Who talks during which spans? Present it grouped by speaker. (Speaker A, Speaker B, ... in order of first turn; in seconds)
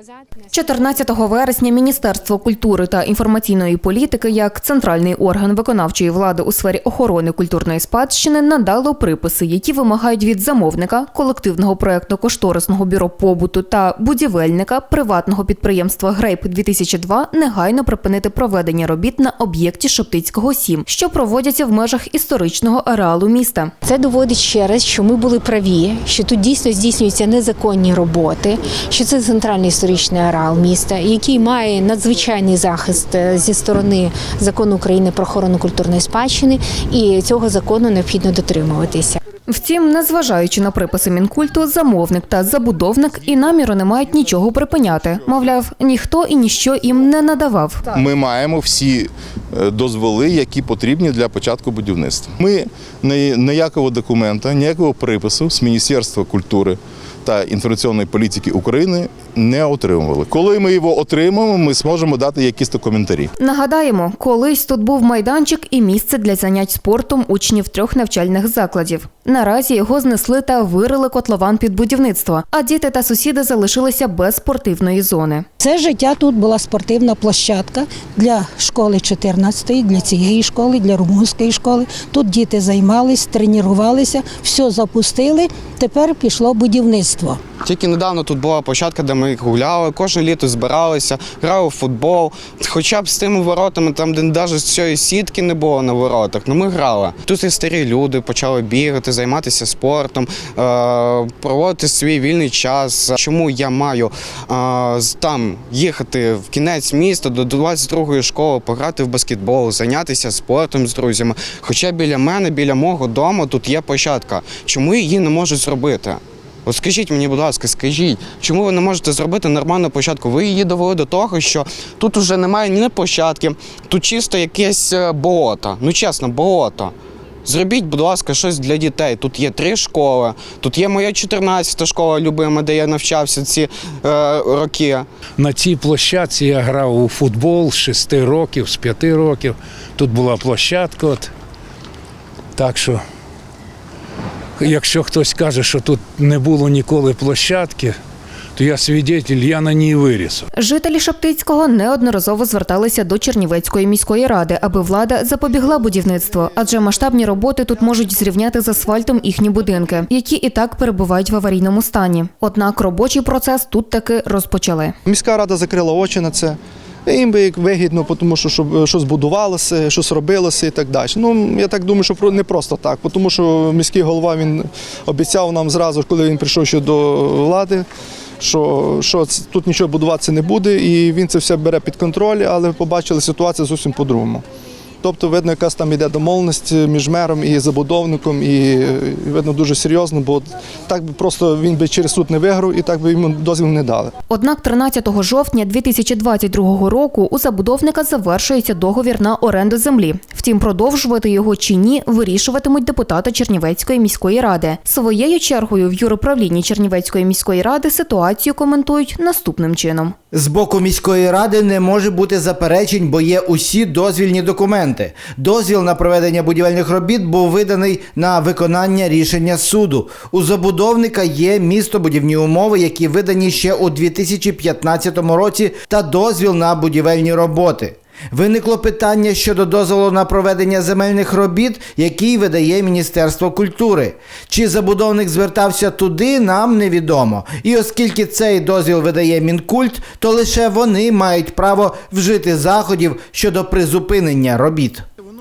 Speaker A: 0.5-23.7, 39.5-47.8, 63.4-75.5, 150.6-165.0, 194.3-210.2
Speaker B: 23.8-39.2
Speaker C: 47.9-63.3
Speaker D: 75.6-87.4
Speaker E: 87.6-126.9, 127.5-135.1
Speaker F: 135.4-141.3, 142.6-143.0, 144.6-148.0, 148.6-150.5
Speaker G: 165.1-177.9, 178.4-184.4, 185.0-194.1
Speaker H: 210.3-245.0